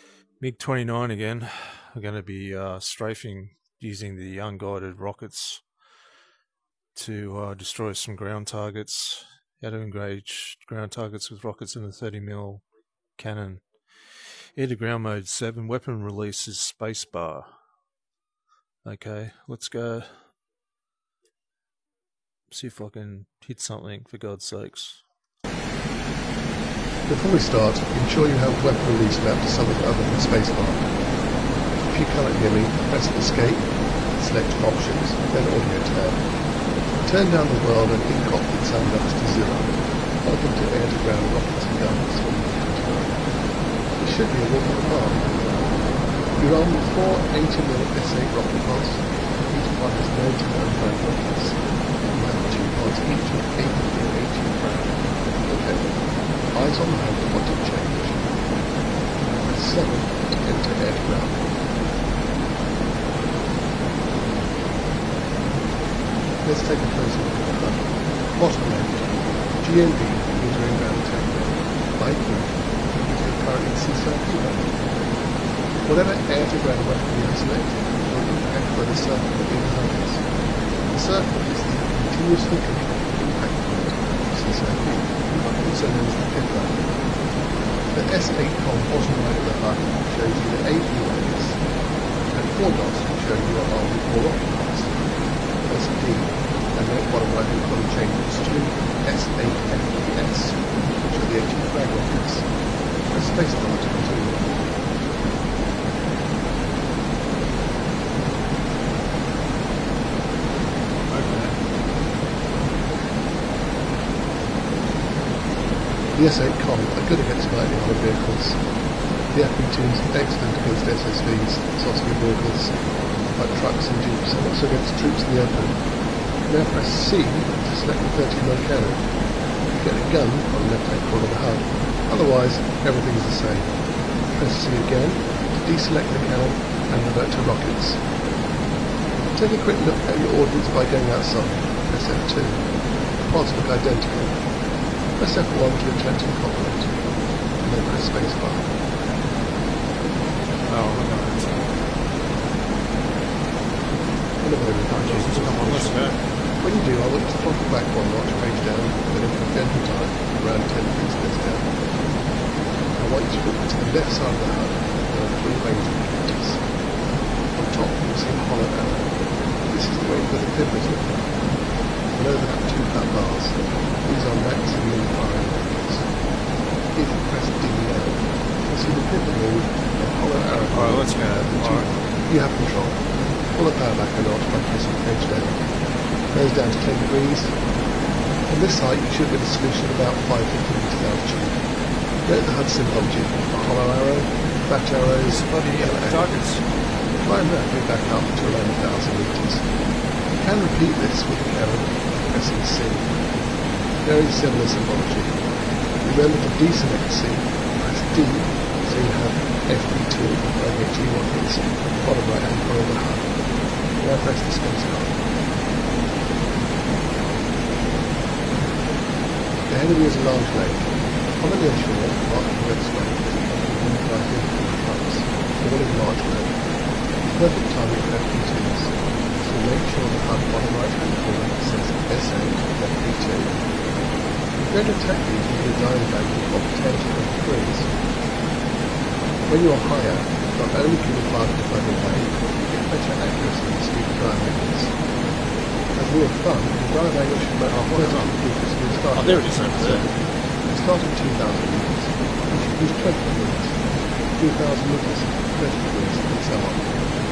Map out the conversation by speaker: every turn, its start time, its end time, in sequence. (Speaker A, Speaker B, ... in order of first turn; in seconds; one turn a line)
Speaker A: 0.4-5.8
Speaker A: 6.9-17.6
Speaker A: 18.8-20.4
Speaker A: 22.5-25.1
Speaker B: 27.1-30.9
Speaker B: 31.8-36.2
Speaker B: 37.0-43.2
Speaker B: 43.9-45.3
Speaker B: 46.4-55.9
Speaker B: 56.5-58.2
Speaker B: 59.3-61.4
Speaker B: 66.4-74.7
Speaker B: 75.8-80.3
Speaker B: 80.9-86.8
Speaker B: 87.9-91.6
Speaker B: 92.3-95.0
Speaker B: 95.6-102.5
Speaker B: 103.0-104.5
Speaker A: 111.1-111.6
Speaker B: 116.1-118.7
Speaker B: 119.3-125.8
Speaker B: 126.4-129.1
Speaker B: 129.7-138.0
Speaker B: 139.3-142.7
Speaker B: 143.2-144.4
Speaker B: 145.2-146.9
Speaker B: 147.6-148.7
Speaker A: 150.7-151.7
Speaker B: 154.4-161.7
Speaker A: 154.9-156.2
Speaker B: 162.9-166.6
Speaker B: 167.5-171.2
Speaker B: 172.1-176.2
Speaker B: 176.9-185.7
Speaker A: 180.7-181.9
Speaker B: 186.3-187.6
Speaker B: 188.5-191.6
Speaker B: 192.2-196.3
Speaker A: 195.2-196.7
Speaker B: 197.2-199.7
Speaker B: 200.3-203.1
Speaker B: 204.0-205.4
Speaker B: 206.0-213.3
Speaker B: 213.9-215.2
Speaker B: 219.7-226.6
Speaker B: 227.3-233.6
Speaker B: 234.7-237.9
Speaker B: 239.4-244.9
Speaker B: 245.9-256.9
Speaker A: 247.7-248.4
Speaker A: 249.1-250.1